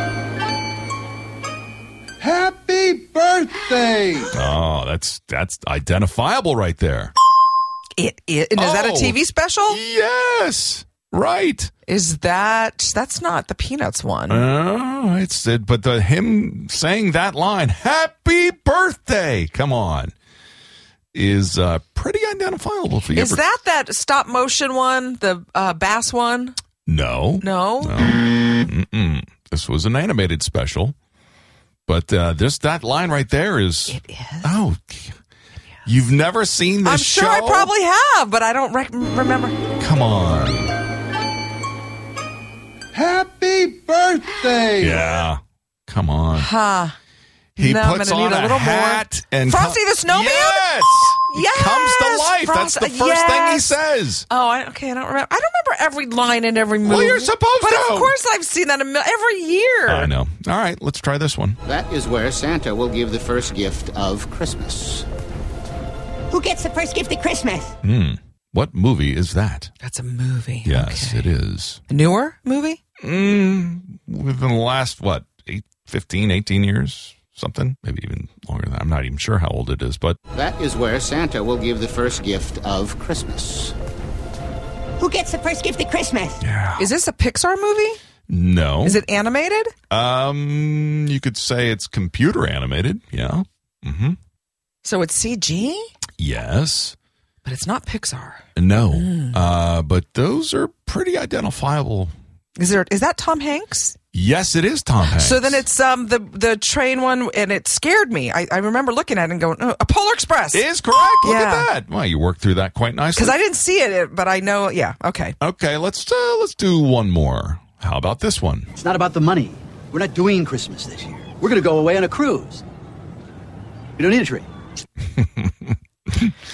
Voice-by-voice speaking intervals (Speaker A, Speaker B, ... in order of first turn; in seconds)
Speaker A: 2.2-4.3, 42.9-45.0
Speaker B: 4.3-7.1, 8.6-9.2, 9.7-11.7, 14.3-20.1, 21.1-23.4, 26.9-30.9, 31.9-35.1, 35.9-37.7, 39.8-40.7, 44.8-46.5, 47.6-54.2, 56.8-58.1, 59.9-61.6, 67.8-69.7, 70.6-71.8, 73.0-80.2, 86.4-86.8, 88.3-89.0, 89.9-94.2, 96.2-96.9, 98.5-102.1, 104.1-105.6, 110.5-113.3, 115.4-118.7, 125.2-126.3
Speaker C: 8.0-9.8, 11.9-14.4, 23.1-26.6, 27.4-27.9, 33.9-34.5, 36.8-39.6, 46.3-47.0, 47.6-53.8, 54.3-60.1, 69.8-71.3, 71.9-72.8, 86.8-88.0, 88.8-89.7, 94.8-95.9, 97.4-99.4, 102.6-104.0, 105.1-111.7, 113.2-115.3
Speaker D: 61.6-65.0, 80.3-83.7
Speaker E: 66.3-67.7, 85.0-86.4
Speaker F: 118.8-122.6, 124.0-124.5